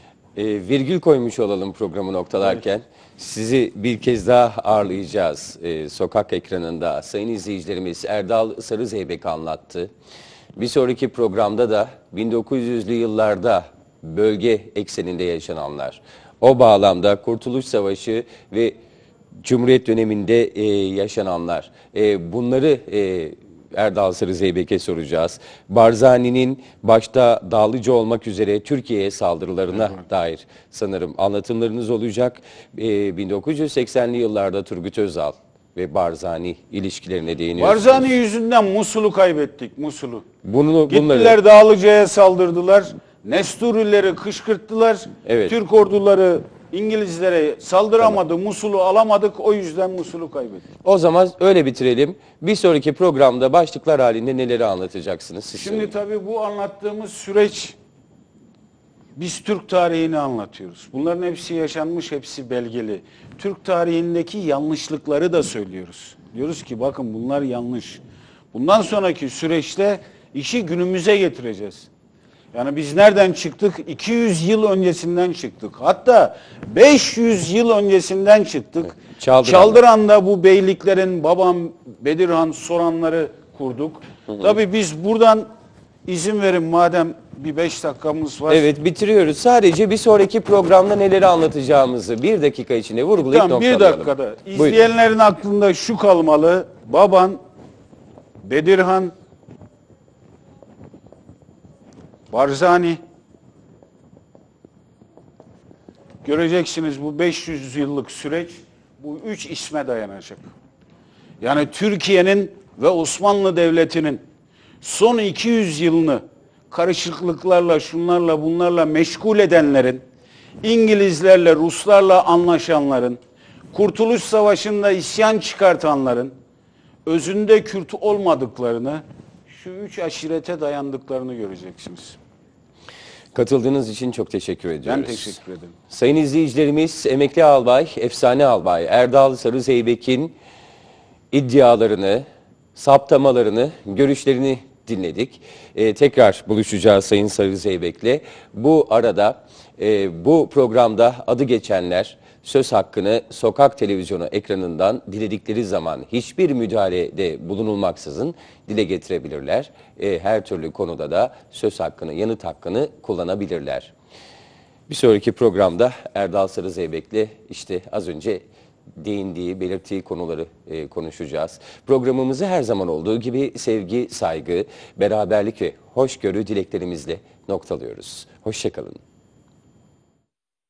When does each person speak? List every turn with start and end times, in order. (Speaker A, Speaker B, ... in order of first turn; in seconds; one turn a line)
Speaker A: 0.4-9.9
Speaker A: 10.6-18.8
Speaker A: 19.4-38.1
Speaker B: 37.6-40.3
Speaker A: 40.4-41.4
Speaker B: 40.9-50.6
Speaker A: 45.2-45.5
Speaker A: 50.8-55.9
Speaker B: 55.5-57.8
Speaker B: 59.1-68.0
Speaker B: 68.5-71.9
Speaker B: 72.5-85.5
Speaker A: 79.2-79.8
Speaker B: 86.1-88.7
Speaker A: 88.5-94.8
Speaker B: 93.2-97.4
Speaker B: 98.4-99.1
Speaker B: 102.3-103.0
Speaker B: 106.2-110.5
Speaker B: 111.4-114.2
Speaker B: 114.8-120.0
Speaker B: 120.6-123.2
Speaker B: 123.7-126.3
Speaker B: 127.1-132.2
Speaker A: 133.3-135.4
Speaker B: 134.8-135.8
Speaker A: 135.9-140.3
Speaker A: 141.3-163.9
Speaker A: 164.9-168.4
Speaker A: 169.0-179.0